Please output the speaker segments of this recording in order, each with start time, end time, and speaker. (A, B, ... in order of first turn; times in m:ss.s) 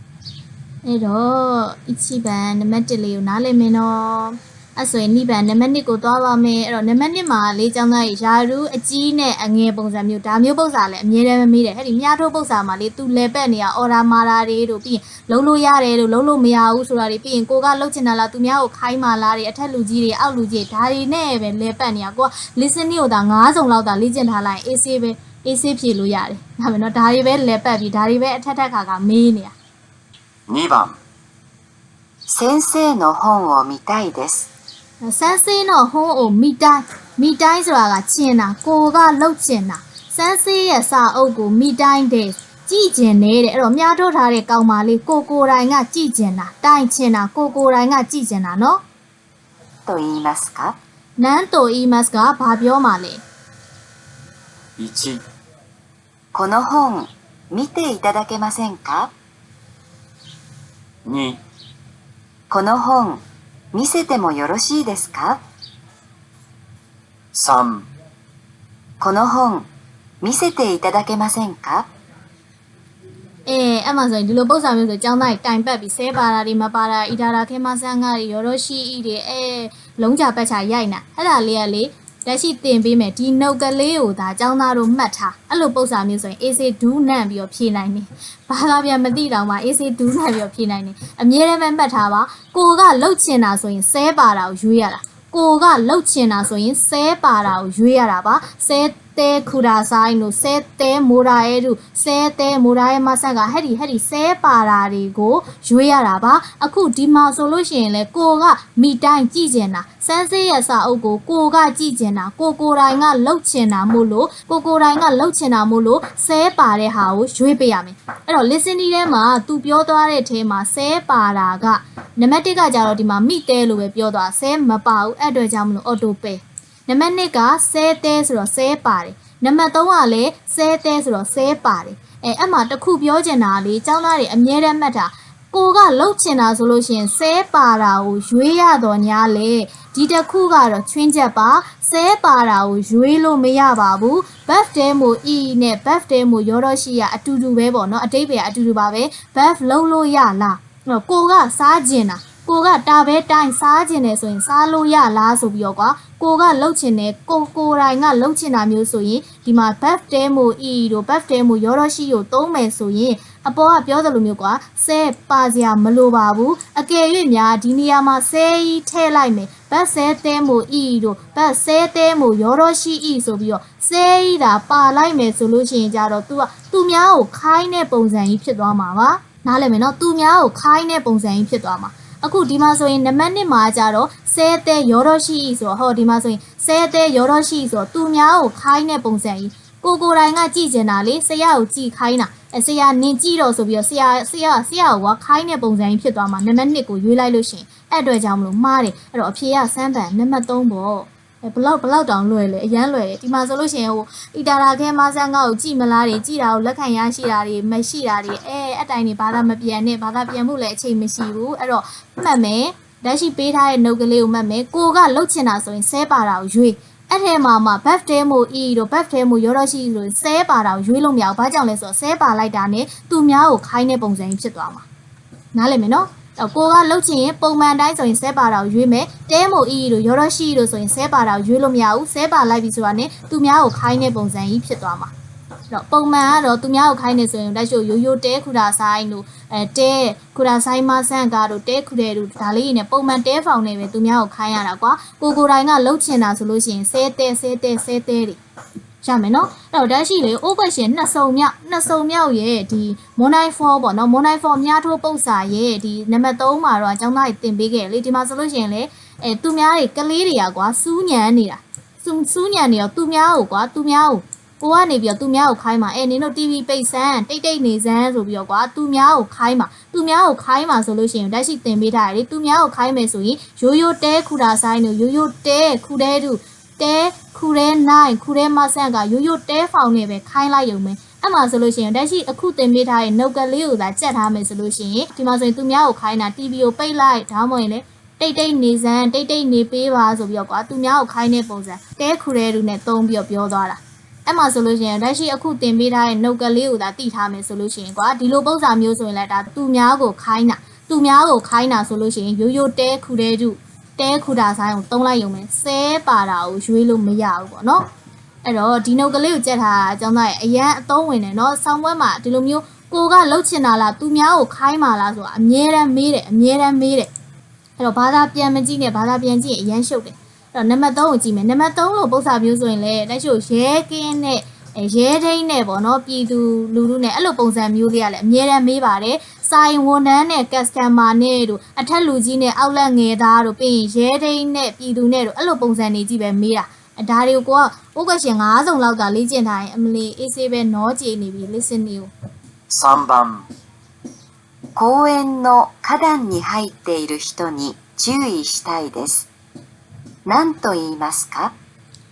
0:00.8-0:29.5 A
0:30.5-0:31.0 B
0:32.3-0:34.5 C
0:35.0-0:48.8 A
0:49.9-0:50.8 C
0:51.2-0:53.2 A
0:54.8-0:55.2 B
0:56.3-0:59.1 C
1:01.0-1:01.4 B
1:02.5-1:05.4 C
1:07.3-1:07.9 B
1:09.0-1:09.7 C
1:10.2-1:11.9 C
1:13.5-3:44.8 A
3:45.5-3:55.1 A
3:55.7-4:08.4 A
4:09.0-5:07.8 A
5:08.4-5:17.1 A
5:17.8-5:42.1 A
5:42.7-5:43.5 B
5:44.8-5:49.3 C
5:50.2-5:51.5 C